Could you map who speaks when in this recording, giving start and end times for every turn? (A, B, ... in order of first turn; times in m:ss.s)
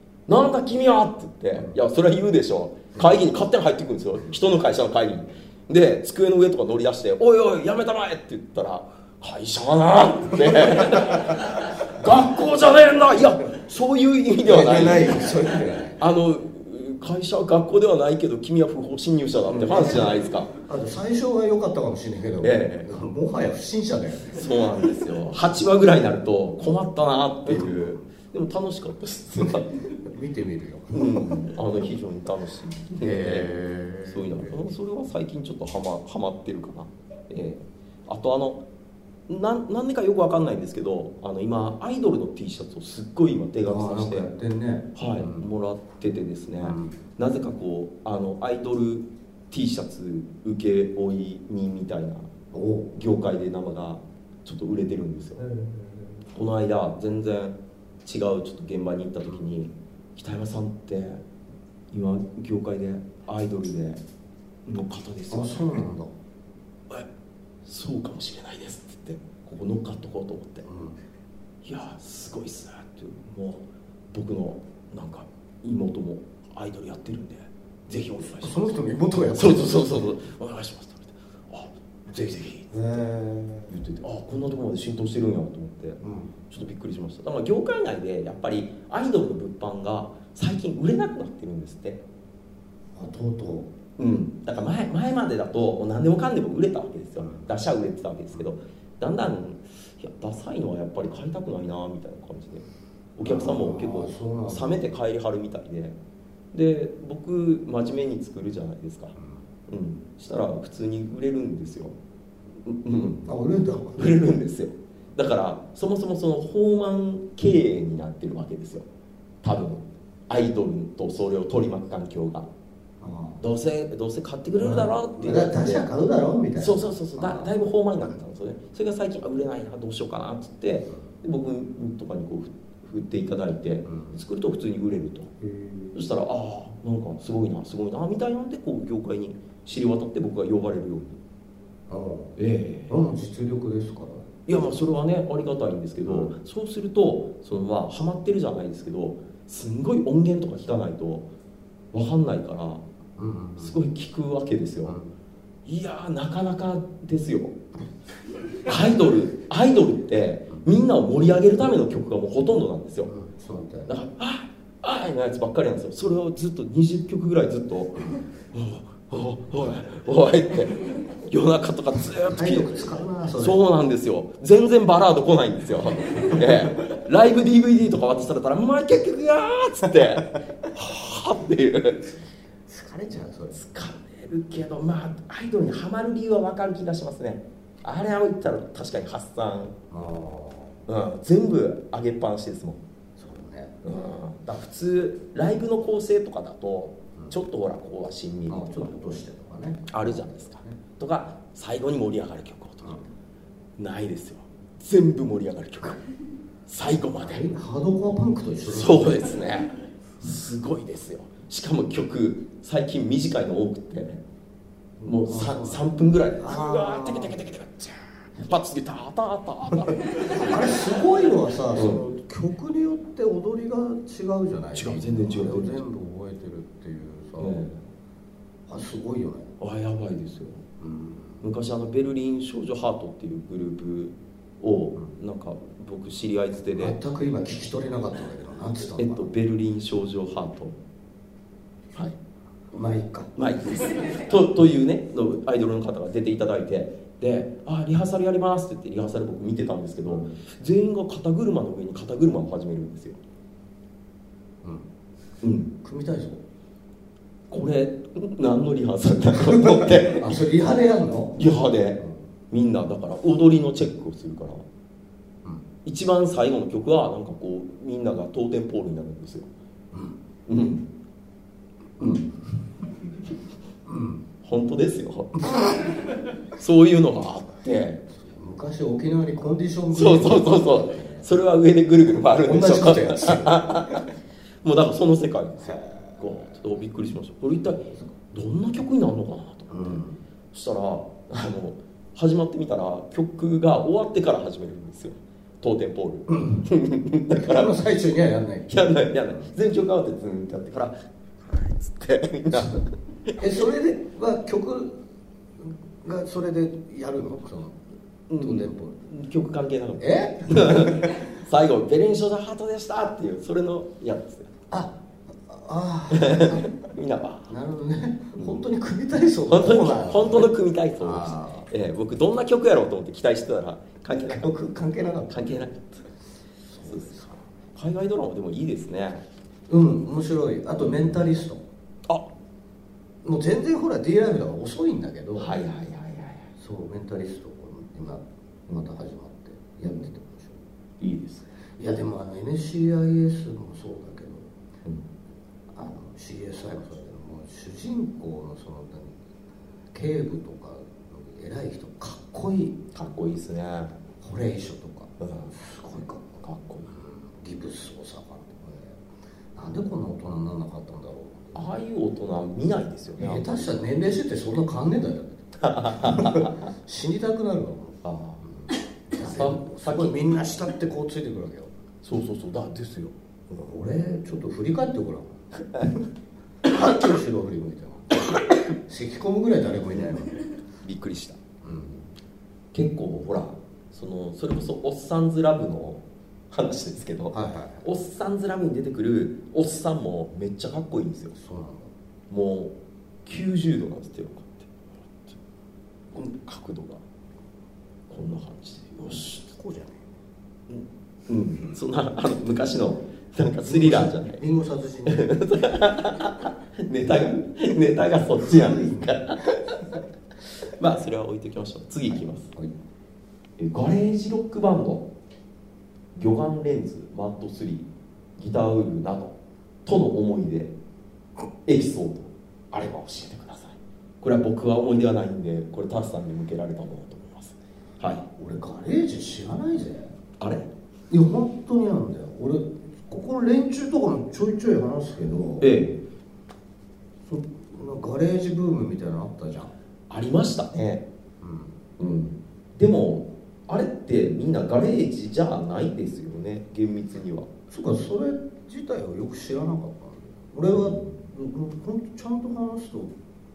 0:00.3-0:15.4 A
0:10.7-0:11.2 B
0:14.4-0:16.0 B
0:16.0-0:20.5 A
0:19.5-0:24.4 B
0:22.4-0:22.9 A
0:24.3-0:29.9 A
0:27.4-0:27.8 B
0:29.9-0:31.5 B
0:30.9-0:38.6 A
0:33.0-0:34.7 B
0:39.3-0:44.3 A
0:43.6-0:45.5 B
0:44.9-0:52.3 A
0:46.6-0:47.0 B
0:52.5-0:53.0 B
0:52.9-0:55.4 A
0:55.4-0:56.2 B
0:56.3-1:01.2 A
1:01.9-1:04.0 A
1:04.7-1:05.8 A
1:05.3-1:06.1 B
1:07.6-1:10.6 A
1:10.6-1:11.0 B
1:11.6-1:18.8 A
1:18.4-1:20.0 B
1:19.3-1:22.8 A
1:22.7-1:23.8 B
1:23.7-1:32.0 A
1:26.0-1:26.4 B
1:32.9-1:33.7 B
1:34.0-1:46.0 A
1:37.2-1:37.5 B
1:43.2-1:44.9 B
1:46.5-1:49.1 A
1:49.2-1:49.5 B
1:49.7-1:52.0 A
1:52.6-1:53.3 A
1:53.2-1:54.1 B
1:54.0-1:58.8 A
1:59.4-2:02.5 A
2:03.0-2:03.4 B
2:03.4-2:05.8 A
2:04.5-2:07.5 B
2:06.6-2:15.3 A
2:13.8-2:14.2 B
2:15.4-2:16.0 B
2:15.9-2:21.2 A
2:21.9-2:22.4 B
2:22.4-2:23.0 A
2:22.9-2:24.4 B
2:24.5-2:31.3 A
2:26.0-2:26.3 B
2:31.9-2:32.8 A
2:33.2-2:33.8 B
2:33.6-2:35.0 A
2:34.8-2:35.2 B
2:35.6-2:37.6 A
2:38.6-2:43.1 A
2:43.1-2:43.9 B
2:43.9-3:02.2 A
2:52.2-2:53.6 B
3:02.7-3:03.5 B
3:03.5-3:09.8 A
3:09.9-3:10.8 B
3:10.9-3:12.8 A
3:13.2-3:13.8 B
3:13.8-3:19.0 A
3:18.5-3:20.8 B
3:19.9-3:23.1 A
3:23.8-3:26.0 A
3:26.7-3:27.4 A
3:27.2-3:29.4 B
3:28.7-3:34.2 A
3:35.0-3:37.4 B
3:35.0-3:40.7 A
3:40.3-3:47.7 B
3:41.7-3:42.0 A
3:44.7-3:45.8 A
3:47.4-3:47.8 A
3:48.7-3:49.5 B
3:49.6-3:50.6 A
3:50.8-3:51.4 B
3:51.4-3:57.0 A
3:56.8-3:59.3 B
3:59.0-4:00.8 A
4:02.7-4:03.3 B
4:03.4-4:13.2 A
4:14.6-4:14.9 B
4:15.4-4:15.7 A
4:15.8-4:16.4 B
4:17.5-4:20.5 A
4:19.4-4:21.4 B
4:21.4-4:24.6 A
4:25.8-4:29.5 A
4:29.9-4:30.2 B
4:30.5-4:30.9 A
4:32.0-4:32.9 B
4:33.8-4:34.2 B
4:34.4-4:35.7 A
4:35.4-4:36.0 B
4:36.5-4:38.0 A
4:38.1-4:41.3 B
4:39.9-4:57.8 A
4:42.4-4:44.0 B
4:45.7-4:46.2 B
4:49.7-4:50.2 B
4:56.4-4:56.6 B
4:57.4-4:58.7 B
4:58.7-5:03.4 A
5:03.4-5:05.0 B
5:05.6-5:07.8 B
5:08.3-5:14.5 A
5:08.4-5:09.0 B
5:10.0-5:11.2 B
5:14.7-5:16.7 B
5:16.1-5:17.5 A
5:17.5-5:21.7 B
5:18.4-5:18.6 A
5:19.5-5:24.5 A
5:24.2-5:25.6 B
5:25.3-5:25.9 A
5:26.7-5:27.3 B
5:26.8-5:29.2 A
5:29.7-5:31.6 B
5:30.8-5:31.2 A
5:33.2-5:35.6 B
5:35.3-5:36.5 A
5:36.6-5:40.6 B
5:41.0-5:41.5 A
5:41.8-5:44.5 B
5:45.7-5:49.2 B
5:49.9-5:52.8 B
5:52.9-5:53.9 A
5:54.2-5:56.3 B
5:55.2-5:55.5 A
5:56.4-5:56.9 A
5:56.9-5:59.0 B
5:59.5-6:01.6 B
6:01.5-6:03.7 A
6:03.2-6:11.7 B
6:05.6-6:06.7 A
6:08.0-6:08.4 A
6:09.2-6:10.2 A
6:12.0-6:13.1 A
6:13.5-6:16.0 B
6:16.6-6:20.4 B
6:20.8-6:21.4 A
6:21.6-6:22.1 B
6:22.7-6:31.4 A
6:27.3-6:27.8 B
6:31.3-6:31.9 B
6:32.3-6:32.7 A
6:33.2-6:35.4 A
6:36.1-6:37.0 A
6:38.1-6:39.4 A
6:39.0-6:40.1 B
6:40.7-6:44.4 A
6:43.6-6:45.3 B
6:45.1-6:50.0 A
6:48.4-6:49.4 B
6:50.6-6:52.5 A
6:52.1-6:52.7 B
6:53.6-6:55.1 A
6:56.1-6:59.3 A
6:59.8-7:00.8 A
7:01.6-7:08.3 A
7:08.4-7:10.1 B
7:10.4-7:10.7 A
7:11.1-7:15.7 B
7:15.6-7:16.0 A
7:17.2-7:19.7 B
7:20.1-7:21.0 A
7:21.4-7:21.8 B
7:22.0-7:27.5 A
7:27.7-7:33.1 B
7:30.7-7:31.2 A